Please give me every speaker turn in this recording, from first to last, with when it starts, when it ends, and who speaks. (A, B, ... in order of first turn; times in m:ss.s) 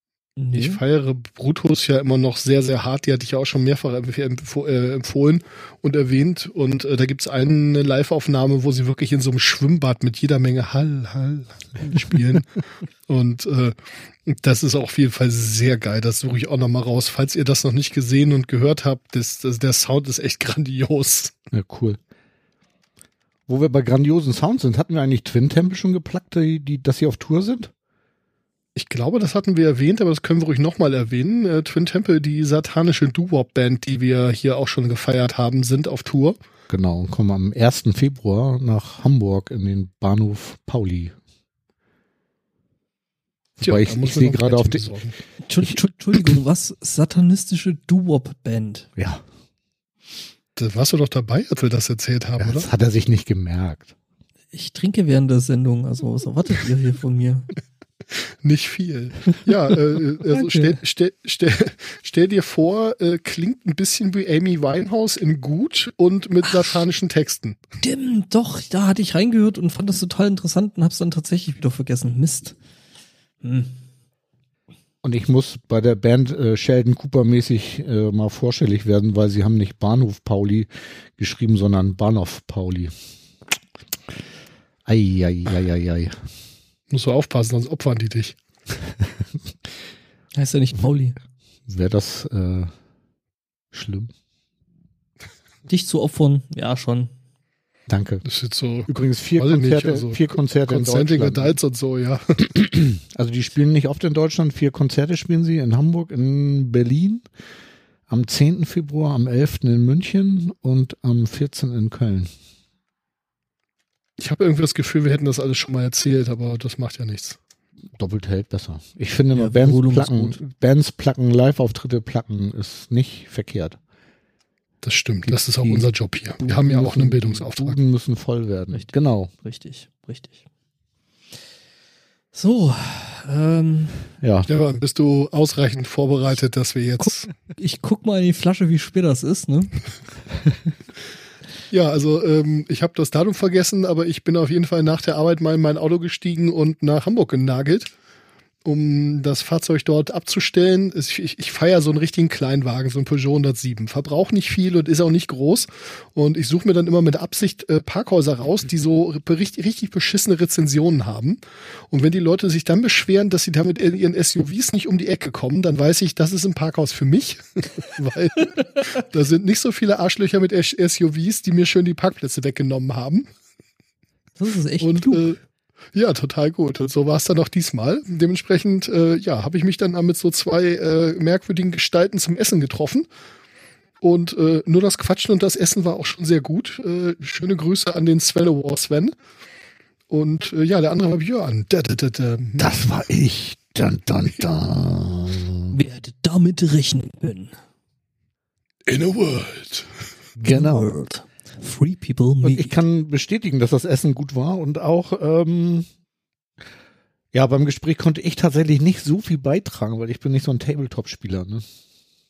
0:00.4-0:00.8 A
0:00.6-0:21.3 B
0:21.5-0:22.0 C
0:23.5-0:27.7 C
0:28.8-0:36.4 B
0:36.7-0:41.2 C
0:43.6-0:45.1 B
0:43.6-0:44.8 C
0:45.4-0:48.9 A
0:49.0-0:49.2 C
0:50.6-0:52.6 B
0:52.4-0:53.9 C
0:54.5-0:57.5 A
0:58.4-1:07.6 B
1:00.3-1:00.8 A
1:07.8-1:12.6 A
1:13.4-1:13.7 A
1:15.0-1:22.9 C
1:24.8-1:26.2 C
1:26.9-1:28.4 B
1:30.4-1:31.2 A
1:31.7-1:32.7 C
1:33.7-1:34.1 C
1:35.7-1:37.1 A
1:37.9-1:38.2 C
1:38.2-1:42.5 B
1:38.9-1:41.6 C
1:42.5-1:47.2 C
1:48.1-1:52.3 C
1:54.2-1:57.4 B
1:58.0-2:03.8 C
1:59.3-2:00.4 A
2:04.8-2:07.8 B
2:05.3-2:09.3 C
2:08.7-2:10.3 A
2:12.3-2:14.1 A
2:14.2-2:14.5 C
2:14.5-2:17.3 B
2:17.0-2:19.8 A
2:21.7-2:27.9 B
2:28.6-2:41.4 B
2:41.9-2:53.2 B
2:54.4-2:55.3 A
2:54.8-2:55.4 B
2:55.9-3:03.0 B
3:04.0-3:09.1 B
3:10.1-3:12.7 B
3:12.6-3:15.7 C
3:15.7-3:17.5 A
3:18.9-3:19.9 B
3:20.4-3:20.9 C
3:20.4-3:22.8 A
3:22.4-3:25.9 C
3:27.3-3:31.6 C